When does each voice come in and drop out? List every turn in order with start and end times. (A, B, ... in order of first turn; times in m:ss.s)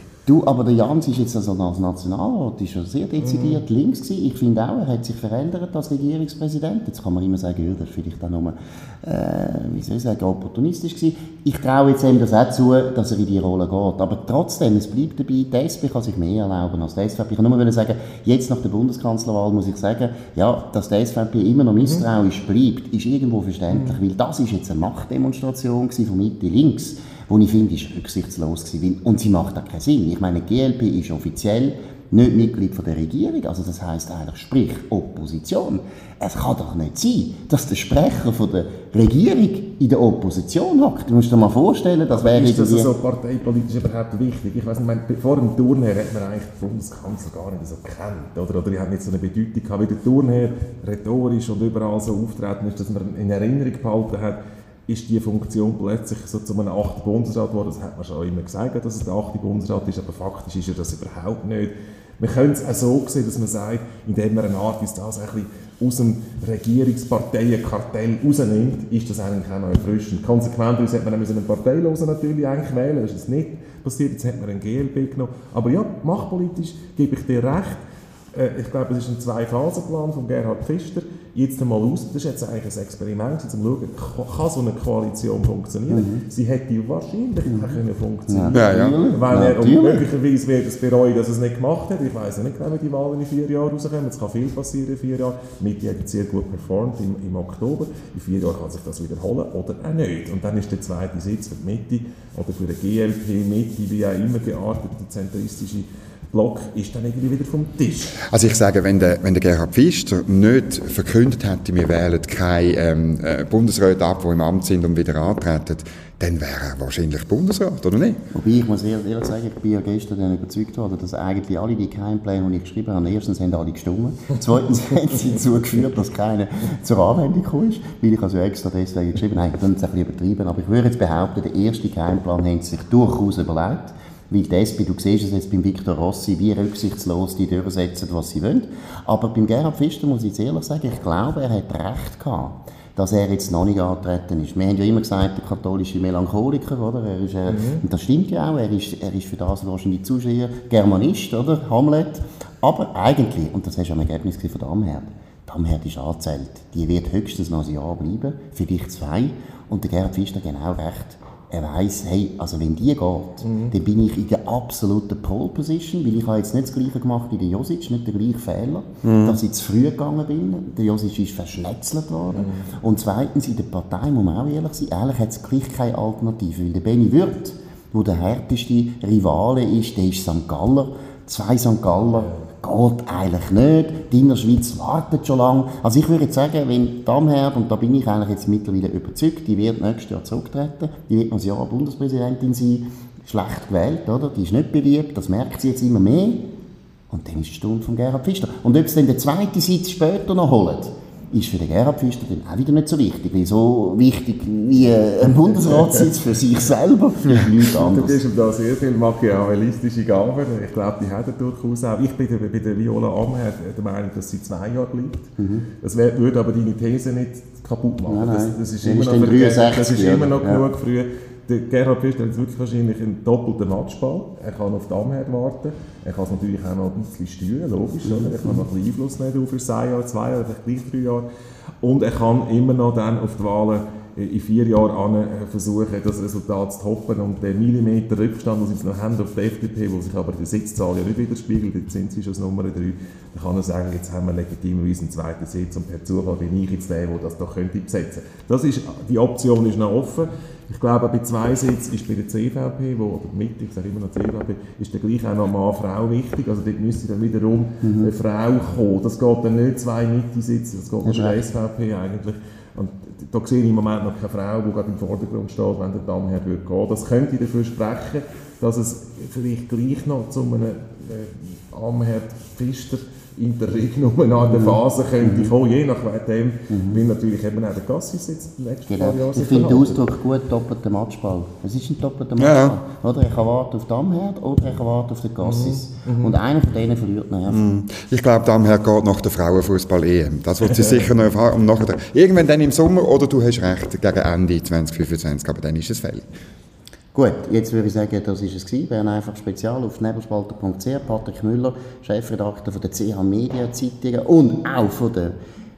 0:00.2-0:42.9 A
0:03.2-0:03.6 B
0:23.7-0:24.0 B
0:42.1-1:17.8 B
1:18.3-1:48.2 B
1:25.9-1:26.2 A
1:27.5-1:30.0 A
1:28.5-1:29.0 C
1:48.3-1:58.2 C
1:58.3-3:16.5 A
2:27.5-2:27.8 B
2:43.4-2:43.8 B
2:49.0-2:49.4 C
2:52.3-2:52.7 B
3:02.0-3:02.5 B
3:17.1-3:28.2 A
3:25.7-3:26.0 B
3:27.7-3:51.3 B
3:35.4-3:35.7 A
3:38.0-3:40.7 A
3:48.0-3:48.6 A
3:51.8-4:40.1 B
4:17.8-4:18.1 A
4:21.0-4:21.4 A
4:34.4-4:35.5 A
4:36.7-4:37.0 A
4:38.9-4:47.6 A
4:42.4-4:42.8 C
4:45.4-4:46.4 B
4:47.5-4:56.2 C
4:50.6-4:51.2 B
4:57.1-5:05.4 A